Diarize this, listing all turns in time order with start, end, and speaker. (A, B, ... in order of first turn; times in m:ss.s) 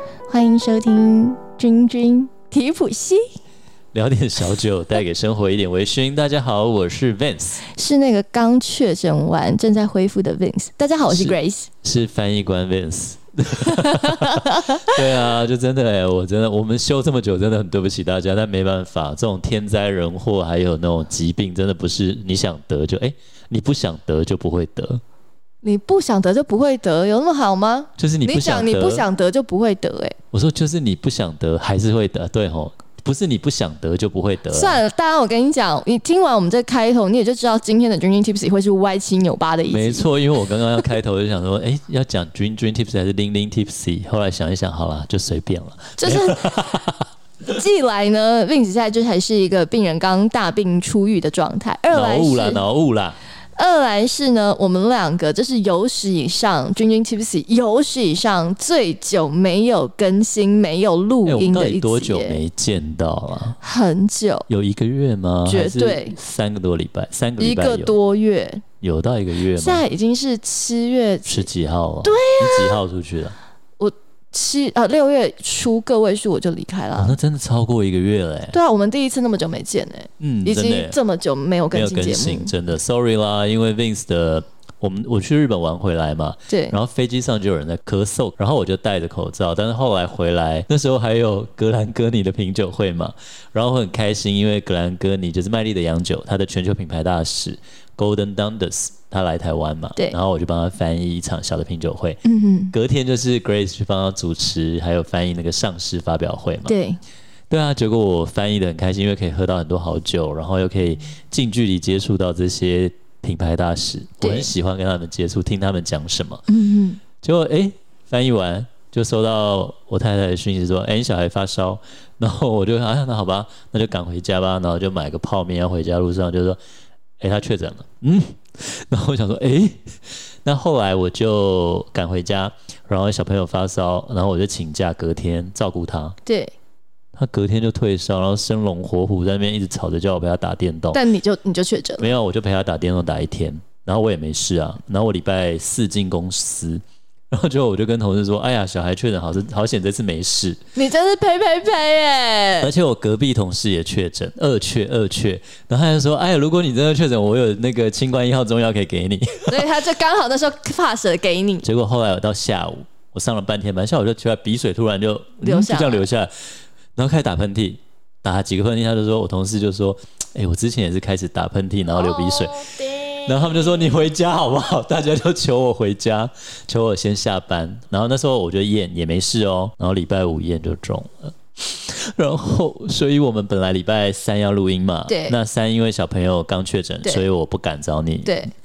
0:00.3-0:03.3 A
0:03.9-0:07.6 B
0:07.6-0:11.7 A
0:11.1-0:25.0 B
0:13.6-0:15.0 A
0:25.6-0:30.2 A
0:28.0-0:29.0 B
0:30.3-0:34.8 B
0:34.5-0:40.0 A
0:39.7-0:47.0 B
0:46.0-0:46.8 A
0:47.4-0:52.6 A
0:51.9-0:53.2 B
0:53.6-1:02.4 A
1:01.2-1:03.6 B
1:03.6-1:04.5 A
1:04.5-1:08.0 B
1:05.4-1:06.2 A
1:07.4-1:08.6 A
1:08.8-1:09.8 B
1:09.5-1:11.5 A
1:11.2-1:13.3 B
1:12.0-1:12.8 A
1:13.8-1:17.2 A
1:17.0-1:18.6 B
1:18.5-1:22.5 A
1:20.2-1:21.0 B
1:21.7-1:46.7 B
1:26.5-1:26.8 A
1:42.2-1:42.7 A
1:46.6-1:47.0 A
1:47.5-1:56.4 B
1:54.2-1:54.5 A
1:56.5-1:57.0 A
1:57.2-2:06.6 B
2:07.2-2:16.2 B
2:16.2-2:16.5 A
2:17.2-2:21.0 B
2:20.9-2:22.1 A
2:22.0-2:30.6 B
2:30.8-2:32.7 A
2:32.6-2:39.6 B
2:39.5-2:41.6 A
2:41.6-2:46.3 B
2:45.4-2:46.0 A
2:47.0-3:08.4 B
2:51.9-2:54.0 A
3:05.1-3:05.4 A
3:08.2-3:08.5 A